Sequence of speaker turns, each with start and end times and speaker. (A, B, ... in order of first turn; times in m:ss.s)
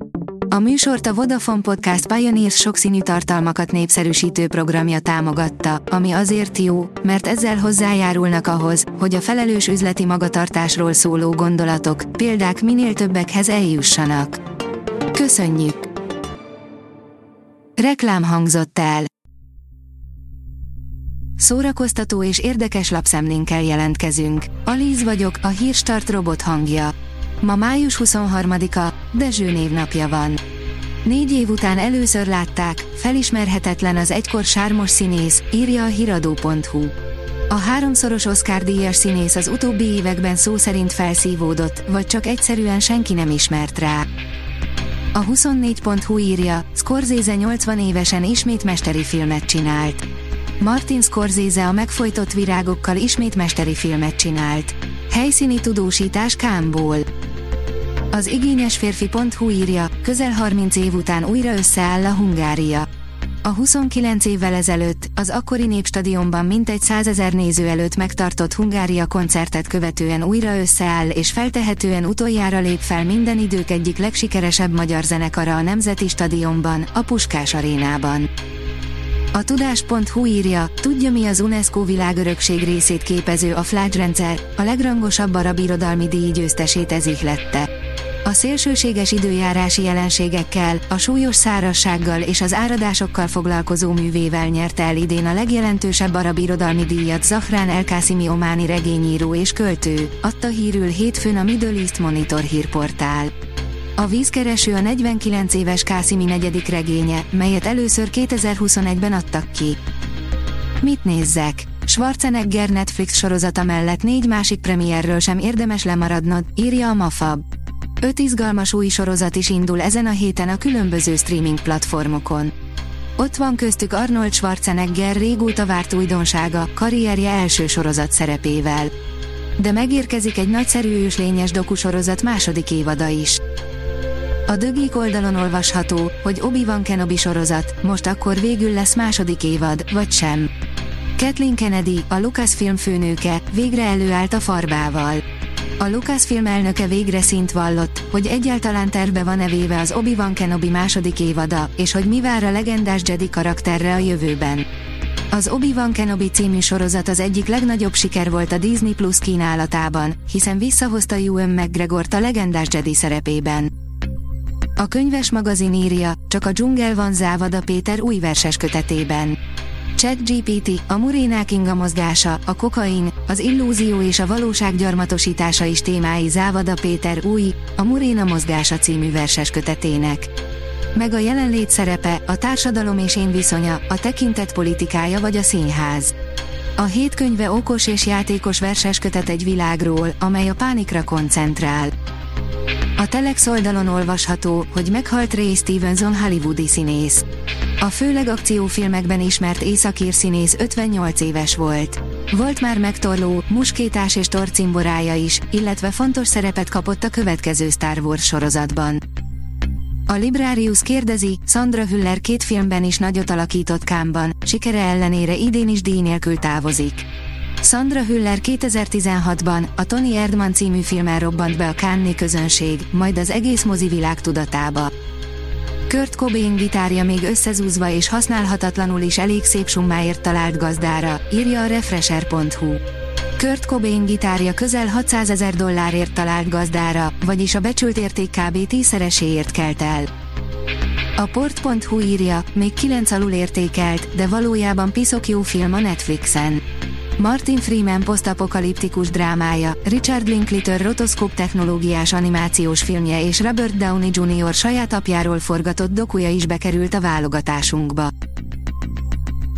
0:00.5-0:14.4 A
0:15.1-0:15.9 A
0:17.8-0:19.1 A
0:21.4-0:30.4 A
0:31.0-0:36.9 A
0:37.5-0:44.1 A
0:45.1-0:50.0 A
0:50.6-0:57.1 A
0:58.1-1:02.9 A
1:03.4-1:18.3 A
1:19.3-1:27.7 A
1:28.2-1:43.3 A
1:44.0-1:49.8 A
1:50.8-1:57.4 A
1:58.0-2:02.5 A
2:03.2-2:08.9 A
2:09.6-2:13.4 A
2:14.5-2:20.5 A
2:21.2-2:25.2 A
2:25.8-2:34.7 A
2:35.3-2:43.7 A
2:44.8-2:49.4 A
2:49.9-3:00.3 A
3:00.9-3:06.1 A
3:06.8-3:11.9 A
3:13.0-3:17.2 A
3:17.8-3:29.0 A
3:30.1-3:37.0 A
3:37.6-3:44.9 A
3:45.9-3:52.8 A
3:53.4-4:00.1 A
4:01.2-4:06.6 A
4:07.2-4:18.1 A